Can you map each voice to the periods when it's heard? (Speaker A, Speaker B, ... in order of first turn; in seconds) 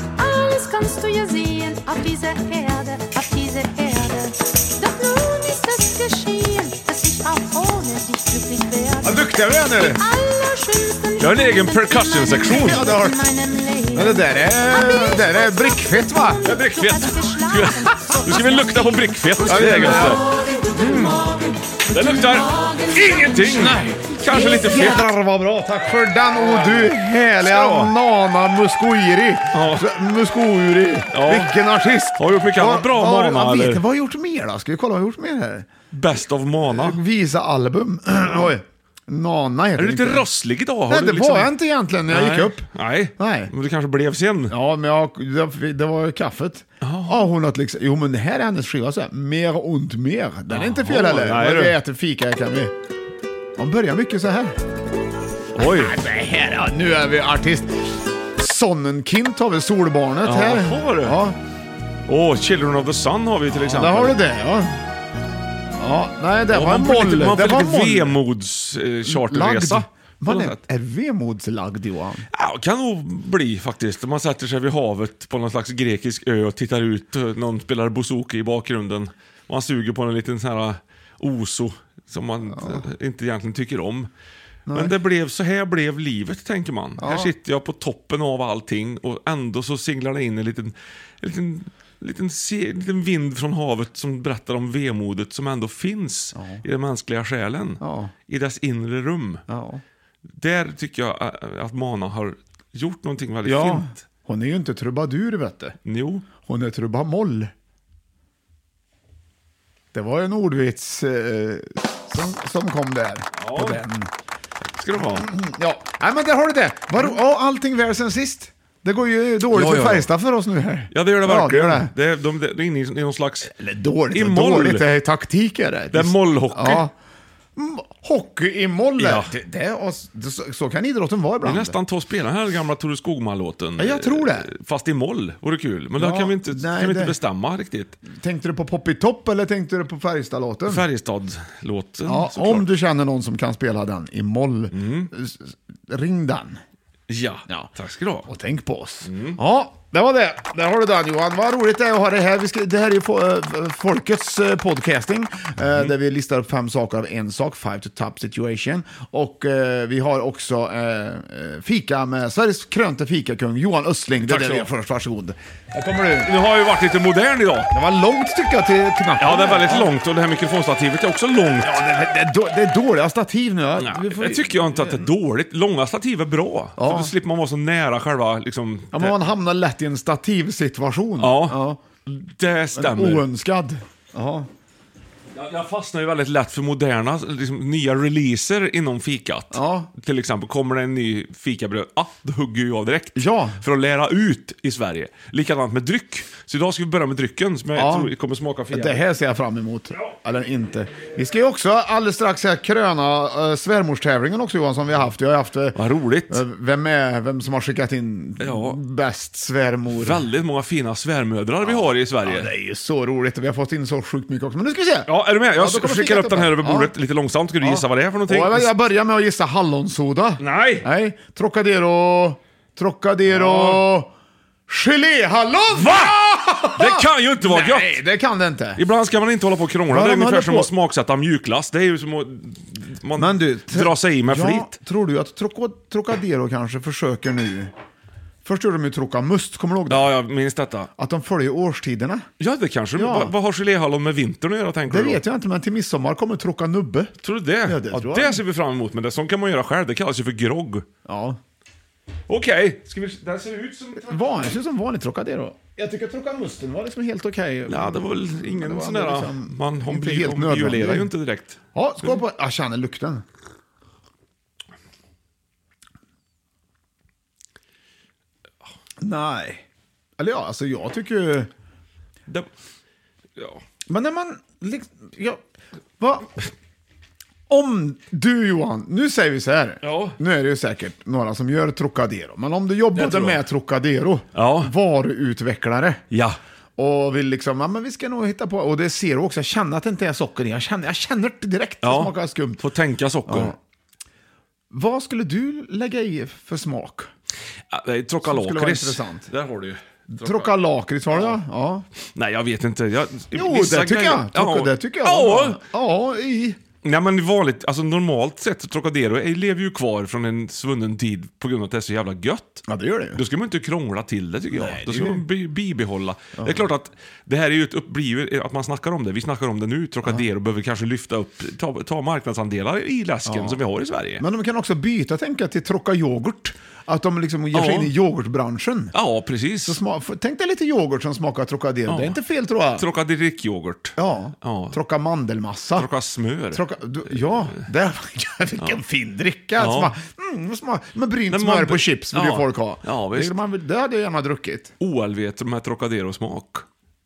Speaker A: 0.2-24.9
Speaker B: 9.0-10.0, 12.5-13.2, 13.9-16.4, 19.4-20.2, 22.9-35.7, 36.7-40.2, 40.9-42.7, 43.2-43.5, 44.5-52.7, 53.6-54.6, 55.6-57.8, 58.4-61.4, 63.6-64.8, 65.8-68.2, 69.1-72.2, 82.5-82.9, 84.7-84.9, 87.0-87.3, 96.3-96.6, 97.8-98.1, 99.5-99.8, 103.4-105.8, 106.4-107.5, 109.9-114.1, 115.2-121.9, 123.6-126.9, 127.6-131.8, 133.8-134.5, 136.0-137.2, 138.1-140.8, 142.1-146.6, 148.3-166.3, 167.7-169.9, 171.6-175.1, 176.8-177.1, 178.9-181.8, 182.8-184.5, 189.5-189.9, 193.2-193.6, 197.7-198.1, 198.7-210.2, 211.6-216.9, 217.6-224.1, 224.7-228.8, 229.9-230.7, 233.2-237.7, 238.4-240.1, 241.0-242.3, 243.0-243.3, 244.9-247.1, 247.7-248.4, 251.1-251.4, 254.1-261.1, 261.7-263.2, 269.0-269.6, 270.2-271.5, 273.9-275.4, 276.0-276.3, 277.5-286.0, 286.8-292.6, 293.3-293.6, 294.7-297.1, 298.3-299.3, 300.2-301.9, 303.3-306.6, 312.7-313.2, 314.5-315.2, 316.4-316.6, 323.3-323.6, 324.2-328.9, 329.6-332.9, 334.0-335.9, 336.5-344.7
Speaker C: 11.2-12.9, 16.4-20.2, 20.8-21.2, 21.9-22.5, 23.1-25.1, 26.4-27.9, 29.5-29.9, 31.1-31.6, 32.2-33.8, 35.9-37.0, 39.8-41.5, 42.1-44.5, 46.8-47.2, 50.5-51.8, 55.5-56.0, 60.2-61.2, 62.1-64.2, 66.5-70.6, 72.3-84.1, 84.7-99.4, 100.3-104.0, 105.8-106.3, 113.4-113.8, 114.8-115.3, 119.5-120.1, 120.9-123.5, 124.1-124.9, 125.9-126.9, 129.0-129.3, 131.4-138.0, 140.7-142.7, 144.7-145.1, 147.1-148.3, 149.1-149.4, 164.2-164.7, 166.2-167.7, 169.2-171.8, 173.8-179.2, 181.2-183.3, 185.3-199.0, 205.8-206.4, 208.4-208.8, 209.9-212.5, 215.1-218.7, 220.4-220.9, 223.3-223.8, 225.7-226.2, 226.8-228.0, 228.8-234.7, 239.9-240.9, 242.4-245.2, 247.2-250.9, 252.3-254.6, 257.7-262.2, 273.4-273.6, 279.8-280.2, 282.9-283.4, 284.4-284.7, 286.1-286.4, 291.8-293.6, 297.7-300.5, 302.1-305.6, 306.8-312.6, 313.1-324.2, 327.5-327.9, 328.9-329.8, 331.9-332.2, 332.8-334.8, 335.8-337.6, 339.6-339.9, 341.3-343.4, 344.8-346.6